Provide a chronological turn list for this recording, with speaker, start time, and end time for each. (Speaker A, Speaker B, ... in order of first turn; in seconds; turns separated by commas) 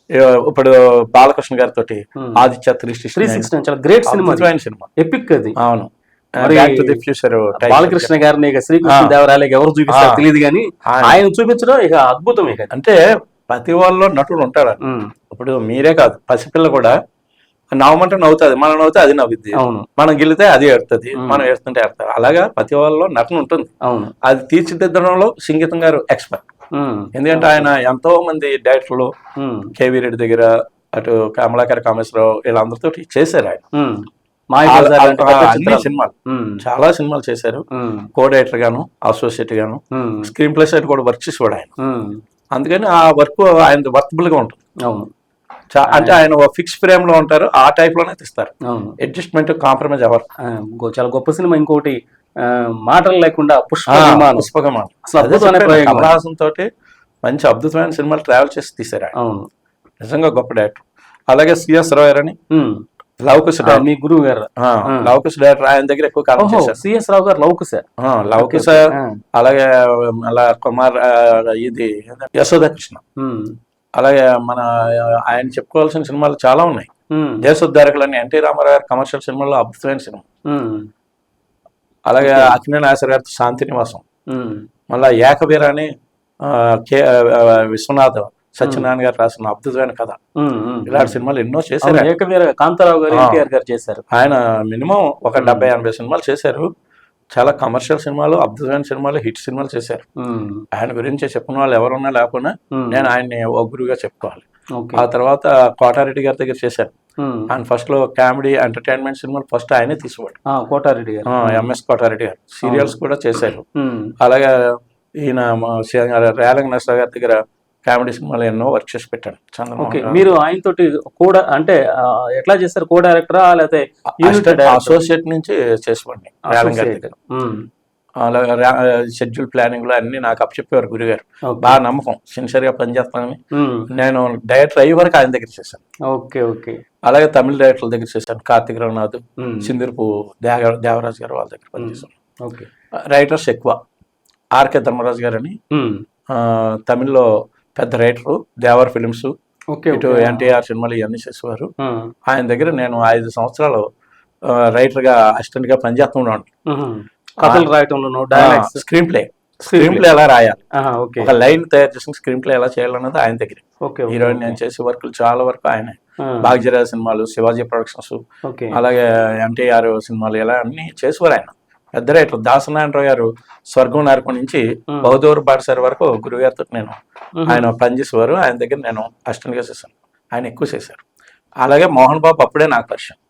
Speaker A: 0.2-3.5, Speaker B: 3.1-5.5, Speaker A: 4.1-4.9, Speaker A: 5.6-8.1, Speaker B: 6.4-7.0, Speaker B: 7.5-12.7, Speaker A: 8.8-9.1, Speaker A: 9.9-10.2, Speaker A: 10.9-11.2, Speaker A: 12.7-13.0, Speaker A: 13.5-14.8, Speaker B: 14.8-15.1, Speaker A: 15.3-16.9, Speaker A: 17.8-23.7, Speaker B: 19.5-19.9, Speaker B: 21.1-21.4, Speaker B: 23.8-24.1, Speaker A: 24.2-26.4, Speaker B: 26.7-27.7, Speaker A: 27.1-29.1, Speaker B: 29.4-29.7, Speaker A: 29.8-33.6, Speaker B: 33.7-36.6, Speaker A: 34.7-37.6, Speaker B: 37.7-38.1, Speaker A: 38.1-41.7, Speaker B: 39.9-40.3, Speaker B: 41.8-42.2, Speaker A: 42.5-44.6, Speaker A: 45.7-50.2, Speaker B: 45.9-46.2, Speaker B: 48.7-49.0, Speaker B: 50.5-54.5, Speaker A: 53.9-56.7, Speaker B: 55.0-56.1, Speaker A: 57.2-59.1, Speaker B: 59.1-59.5, Speaker A: 60.0-62.3, Speaker B: 62.5-62.8, Speaker A: 63.2-63.8, Speaker B: 63.6-65.1, Speaker A: 64.6-66.8, Speaker B: 66.4-67.8, Speaker A: 68.0-73.0, Speaker B: 68.4-69.2, Speaker B: 73.2-73.5, Speaker A: 74.0-76.9, Speaker B: 77.1-77.4, Speaker A: 77.4-80.2, Speaker B: 80.5-80.9, Speaker A: 82.1-84.0, Speaker B: 82.2-82.5, Speaker B: 84.3-84.6, Speaker A: 84.9-85.9, Speaker A: 86.4-90.2, Speaker B: 90.4-91.1, Speaker A: 90.9-92.1, Speaker B: 91.8-94.0, Speaker A: 93.1-93.4, Speaker A: 94.1-96.7, Speaker B: 95.4-95.7, Speaker A: 97.3-100.0, Speaker B: 100.2-100.6, Speaker A: 100.7-106.9, Speaker B: 102.7-103.1, Speaker B: 104.8-105.0, Speaker B: 107.2-107.5, Speaker A: 107.5-110.3, Speaker B: 110.5-111.7, Speaker A: 111.3-113.6, Speaker B: 112.6-113.0, Speaker B: 113.8-114.1, Speaker A: 114.2-120.2, Speaker B: 119.8-125.0, Speaker A: 124.2-127.1, Speaker B: 126.5-127.6, Speaker A: 128.2-133.4, Speaker B: 131.5-131.8, Speaker B: 133.5-133.9, Speaker A: 133.9-135.8, Speaker B: 136.1-136.8, Speaker A: 137.1-142.1, Speaker B: 139.4-139.7, Speaker B: 141.8-142.7, Speaker A: 143.1-143.8, Speaker A: 144.6-145.5, Speaker B: 145.7-146.0, Speaker A: 146.3-149.3, Speaker B: 149.7-150.5, Speaker A: 149.9-151.7, Speaker B: 151.8-152.1, Speaker A: 152.3-153.8, Speaker A: 154.5-156.5, Speaker B: 156.7-158.8, Speaker A: 158.3-160.6, Speaker B: 159.7-160.1, Speaker B: 160.8-161.3, Speaker A: 161.2-168.2, Speaker B: 163.8-164.6, Speaker B: 166.2-166.5, Speaker B: 168.5-168.8, Speaker A: 168.7-181.0, Speaker B: 177.4-177.7, Speaker A: 181.6-183.2